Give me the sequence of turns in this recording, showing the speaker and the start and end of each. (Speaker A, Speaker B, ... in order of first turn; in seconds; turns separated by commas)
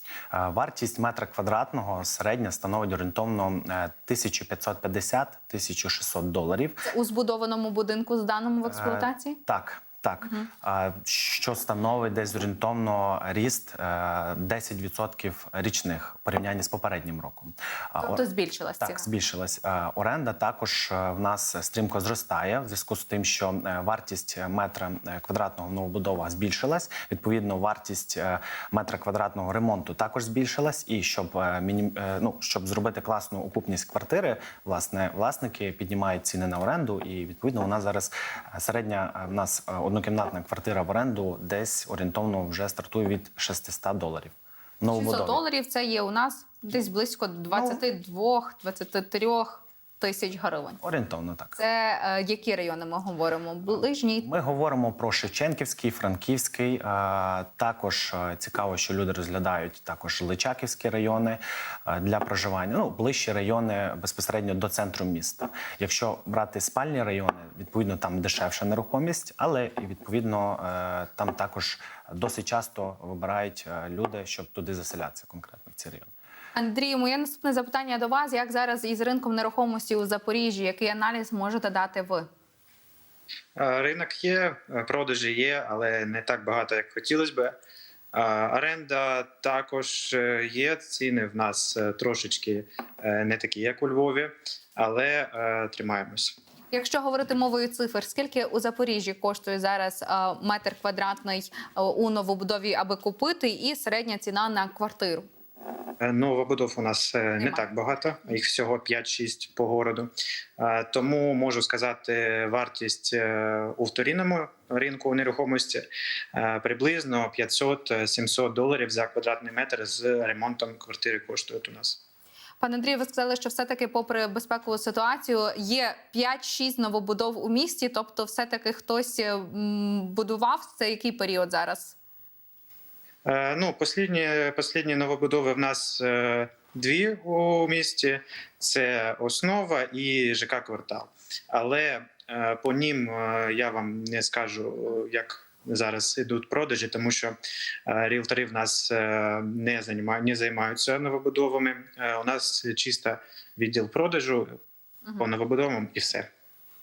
Speaker A: 0.3-6.9, Speaker B: 6.9-9.4, Speaker A: 8.7-18.2, Speaker B: 18.0-19.1, Speaker A: 18.8-45.4, Speaker B: 44.9-50.8, Speaker A: 47.5-47.8, Speaker A: 50.8-51.6, Speaker B: 51.6-54.3, Speaker A: 54.2-76.1, Speaker B: 76.5-82.3, Speaker C: 83.5-87.5, Speaker C: 88.1-96.4, Speaker B: 96.7-105.3, Speaker C: 106.0-122.0, Speaker B: 122.6-131.9, Speaker C: 133.2-147.3, Speaker C: 147.9-154.6, Speaker C: 155.2-156.3